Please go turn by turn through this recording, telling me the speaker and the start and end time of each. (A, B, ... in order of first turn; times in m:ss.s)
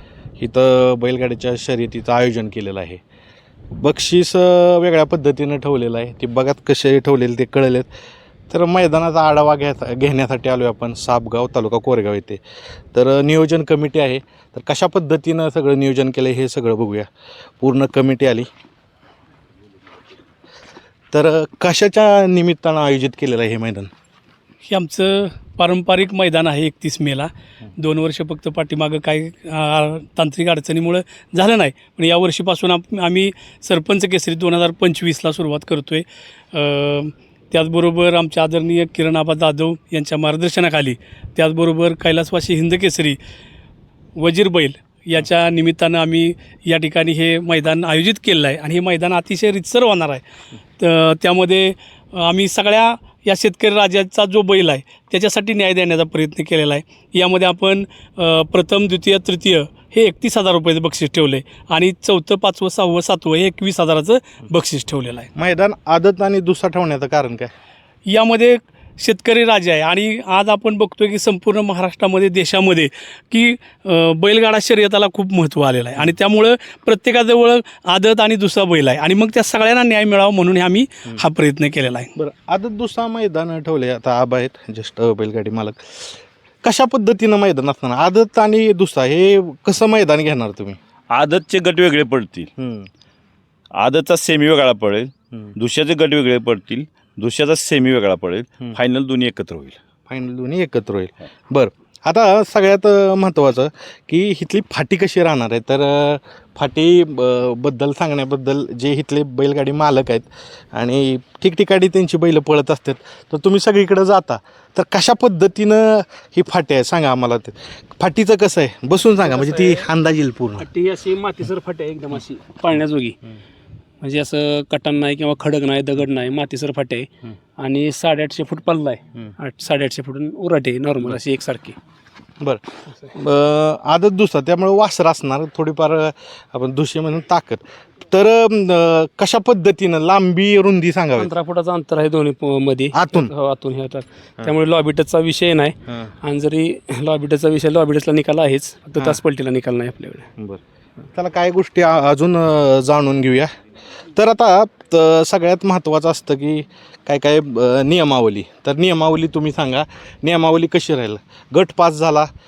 0:00.4-0:03.0 A
0:03.7-0:07.9 A
0:08.5-0:12.4 A
0:12.9-0:17.1 A
0:17.6-0:18.5 A
0:21.1-0:23.9 A
0:24.7-0:43.2 B
0:44.2-0:50.2 B
0:50.8-1:05.3 B
1:05.4-1:07.5 A
1:08.1-1:22.1 B
1:22.2-1:30.8 A
1:31.1-1:32.5 C
1:32.6-1:32.9 A
1:33.8-1:39.8 C
1:40.1-2:00.7 A
1:59.3-1:59.9 D
2:00.6-2:03.2 D
2:04.0-2:11.8 D
2:12.4-2:21.3 A
2:21.2-2:30.3 D
2:22.9-2:23.3 A
2:31.1-2:33.5 A
2:34.1-2:42.3 A